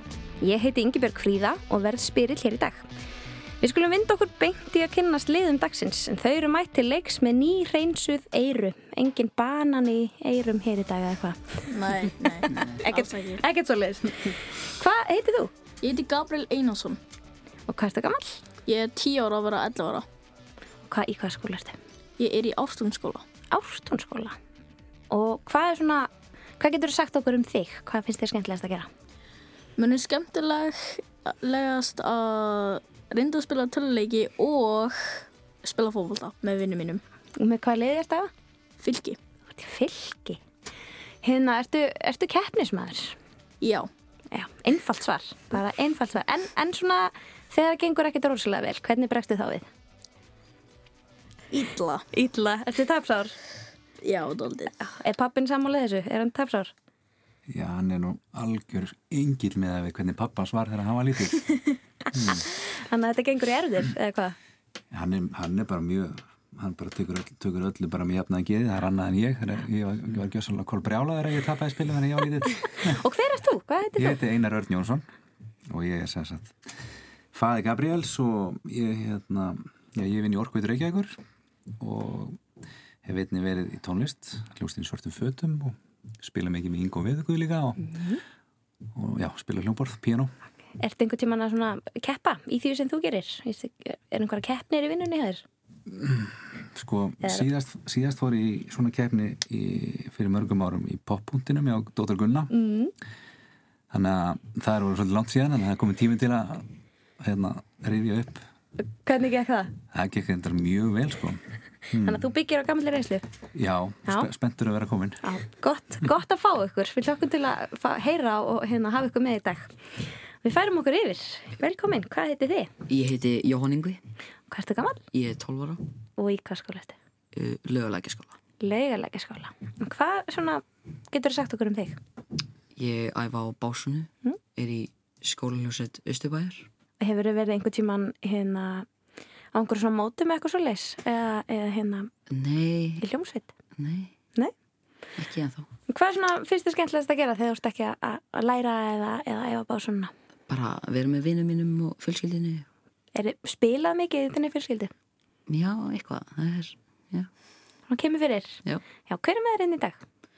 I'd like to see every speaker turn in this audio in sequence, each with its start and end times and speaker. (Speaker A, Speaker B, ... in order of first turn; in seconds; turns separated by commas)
Speaker A: 0.4-2.9, Speaker A: 3.6-11.7, Speaker B: 11.7-13.4, Speaker A: 12.6-15.5, Speaker B: 15.8-17.0, Speaker A: 17.7-18.4, Speaker B: 18.6-20.0, Speaker A: 20.9-21.8, Speaker B: 22.2-23.2, Speaker A: 23.5-24.4, Speaker A: 25.1-28.9, Speaker B: 29.8-37.0, Speaker A: 37.4-38.3, Speaker B: 38.8-39.2, Speaker A: 39.5-40.4, Speaker A: 41.2-43.1, Speaker B: 43.6-43.9, Speaker A: 44.3-49.7, Speaker B: 51.5-52.0, Speaker A: 52.1-53.3, Speaker B: 54.0-54.7, Speaker A: 54.8-56.7, Speaker C: 57.5-62.5, Speaker A: 62.8-64.4, Speaker C: 64.9-73.0, Speaker A: 72.8-74.2, Speaker C: 74.0-75.0, Speaker C: 75.7-76.5, Speaker C: 77.3-81.2, Speaker C: 81.8-82.4, Speaker C: 83.0-87.9, Speaker A: 87.9-88.2, Speaker C: 89.0-90.3, Speaker A: 90.8-95.4, Speaker C: 95.9-102.5, Speaker A: 102.5-102.9, Speaker C: 103.9-106.7, Speaker C: 107.2-108.4, Speaker A: 109.0-109.7, Speaker C: 109.9-112.2, Speaker A: 112.0-113.2, Speaker C: 113.5-115.2, Speaker A: 115.2-119.7, Speaker A: 120.4-122.7, Speaker D: 122.9-124.0, Speaker A: 124.5-125.0, Speaker D: 125.1-125.8, Speaker A: 126.2-127.0, Speaker D: 127.3-128.3, Speaker A: 128.6-132.0, Speaker D: 132.8-136.7, Speaker A: 137.0-138.9, Speaker A: 139.5-142.1, Speaker D: 142.3-143.1, Speaker A: 143.0-143.5, Speaker D: 143.8-144.1, Speaker D: 145.2-145.7, Speaker A: 145.9-150.1, Speaker D: 150.5-152.7, Speaker A: 153.2-154.9, Speaker D: 155.5-157.3, Speaker A: 157.9-160.0